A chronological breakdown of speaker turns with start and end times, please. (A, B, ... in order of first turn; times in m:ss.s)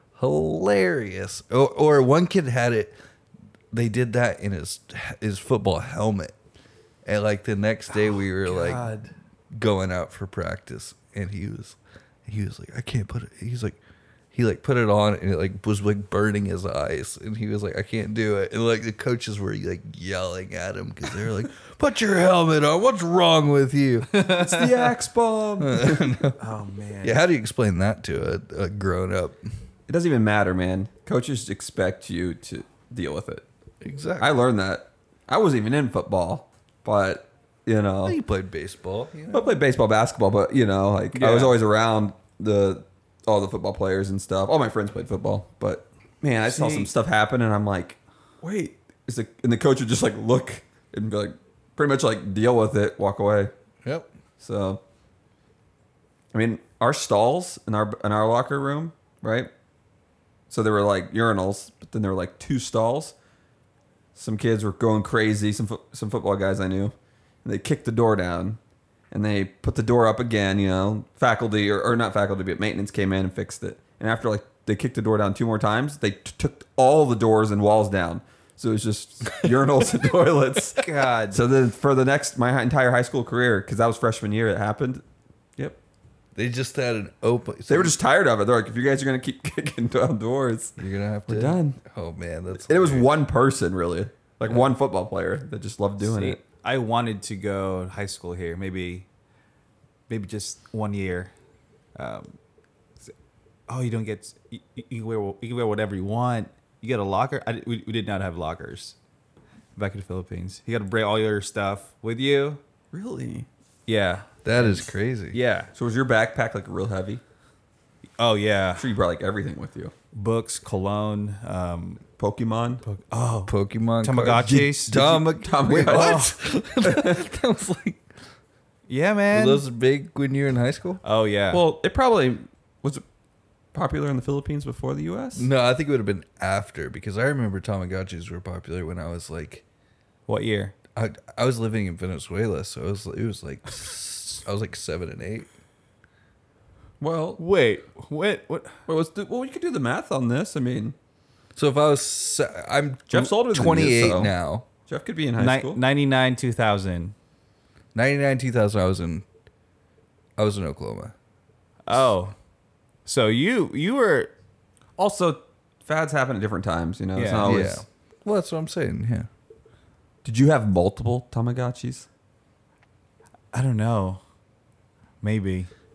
0:00.2-0:02.9 A
0:03.7-0:06.3 A
0:07.0-0:09.0 A
0:07.9-0:09.1 B
0:09.5-0:13.8 A
0:14.3-0:24.1 A
0:24.1-0:24.7 B
0:24.3-0:26.3 C
0:25.6-0:26.4 A
0:26.4-0:27.2 B
0:27.0-0:29.5 A
0:29.9-0:33.4 C
0:33.8-0:34.3 A
0:34.2-0:38.2 C
0:38.0-0:39.6 A
0:39.3-0:53.5 C
0:41.1-0:41.6 B
0:46.4-0:46.9 B
0:53.8-0:54.1 A
0:54.4-0:54.8 C
0:56.3-0:59.5 C
1:00.5-1:03.1 C
1:04.2-1:08.6 C
1:09.1-1:25.0 C
1:20.8-1:21.4 B
1:26.3-1:28.0 A
1:27.6-1:31.8 C
1:30.8-1:33.1 A
1:32.5-1:36.4 C
1:36.0-1:39.1 B
1:40.1-1:41.3 B
1:42.0-1:42.4 B
1:43.7-1:49.0 B
1:49.8-1:52.6 B
1:52.9-1:53.5 C
1:53.9-1:55.7 B
1:54.4-1:55.4 A
1:55.7-1:57.2 C
1:58.2-1:58.8 B
1:58.8-1:59.9 C
2:00.1-2:02.0 B
2:02.2-2:02.8 C
2:02.8-2:05.1 B
2:03.5-2:08.0 A
2:04.5-2:07.2 C
2:05.8-2:06.3 B
2:08.9-2:09.6 B
2:09.3-2:11.0 A
2:11.0-2:11.6 B
2:11.5-2:13.0 C
2:13.7-2:15.5 C
2:15.4-2:19.6 A
2:20.3-2:20.7 B
2:20.9-2:25.5 A
2:27.0-2:27.4 C
2:27.4-2:28.7 B
2:28.9-2:30.9 C
2:31.5-2:34.6 A
2:33.1-2:34.3 C
2:34.9-2:35.8 C
2:35.4-2:37.1 B
2:37.9-2:39.2 A
2:40.4-2:41.1 A
2:41.8-2:42.3 B
2:43.0-2:44.3 B
2:45.0-2:47.8 C
2:47.1-2:47.6 B
2:47.4-2:49.3 A
2:50.2-2:52.1 C
2:53.5-2:54.2 B
2:55.2-2:55.7 B